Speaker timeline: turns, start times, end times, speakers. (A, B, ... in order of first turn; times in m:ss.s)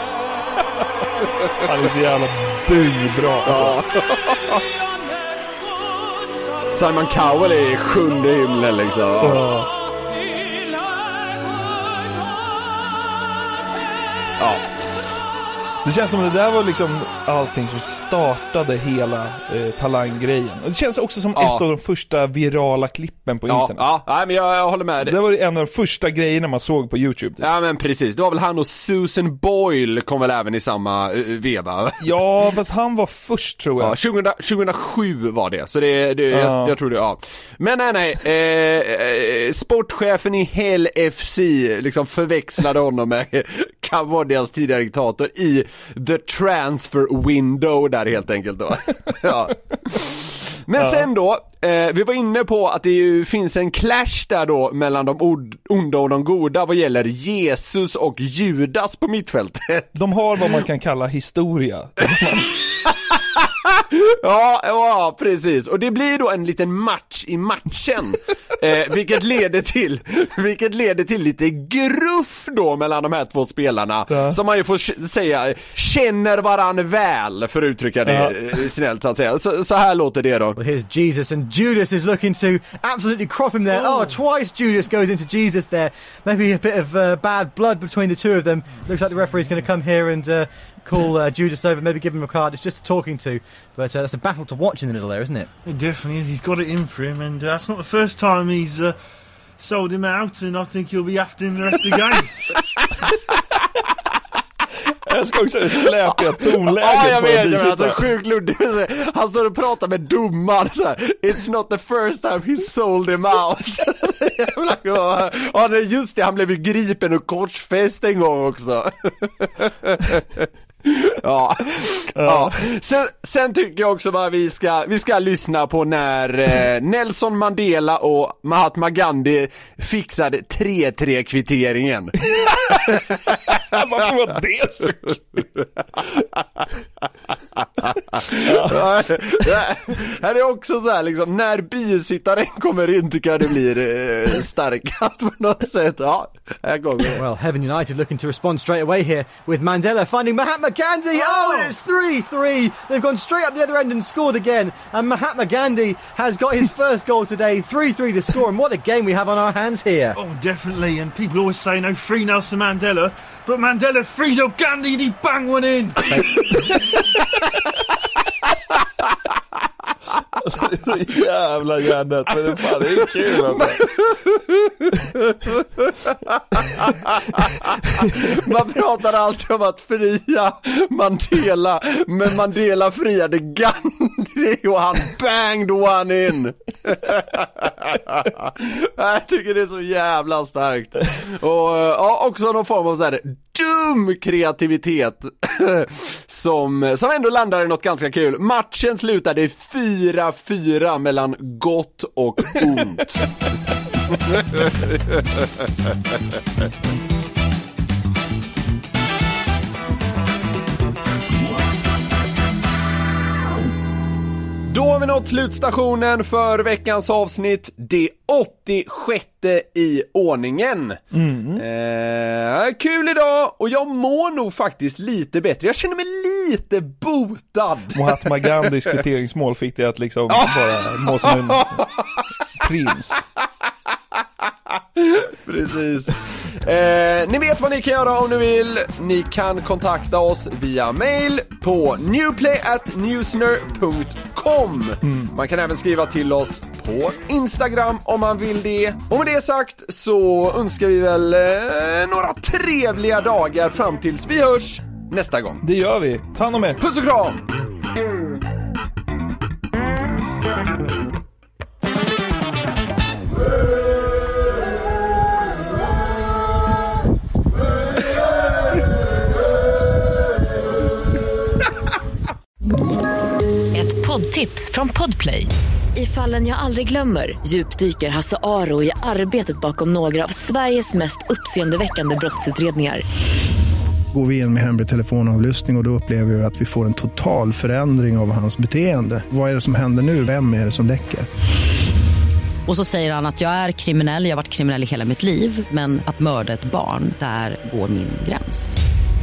0:01.6-0:03.8 A
0:03.5-0:04.6 B
0:06.6-0:09.4 B
0:09.2-0:09.7 A
0:14.4-0:14.7 B
0:15.8-0:23.8 A
0:21.4-0:21.6 B
0:23.5-0:25.2 B
0:25.0-0:27.5 A
0:27.4-0:32.1 B
0:32.0-0:34.0 A
0:33.8-1:00.0 B
0:36.3-0:36.8 A
0:50.8-0:51.1 A
1:00.0-1:02.5 A
1:03.1-1:20.6 B
1:14.1-1:14.4 A
1:18.1-1:18.4 A
1:20.6-1:35.5 C
1:35.7-1:39.0 D
1:39.6-1:42.3 D
1:45.1-1:48.0 A
1:46.8-2:12.2 B
2:02.2-2:02.5 A
2:12.4-2:12.8 A
2:12.8-2:13.5 B
2:13.7-2:15.2 A
2:17.8-2:27.2 B
2:18.4-2:19.0 A
2:27.2-2:40.2 C
2:31.1-2:31.7 D
2:40.2-2:46.8 D
2:50.4-2:53.9 A
2:53.5-3:23.3 B
3:24.1-3:25.2 B
3:34.7-3:41.0 B
3:41.1-3:41.6 A
3:41.6-3:48.7 B
3:47.9-3:51.8 A
3:50.3-3:52.2 B
3:52.6-3:53.2 A
3:55.0-4:15.6 B
4:05.1-4:05.3 A
4:15.6-4:16.8 A
4:16.8-4:17.4 B
4:33.7-4:43.0 E
4:44.1-4:51.3 F
4:52.7-4:58.8 G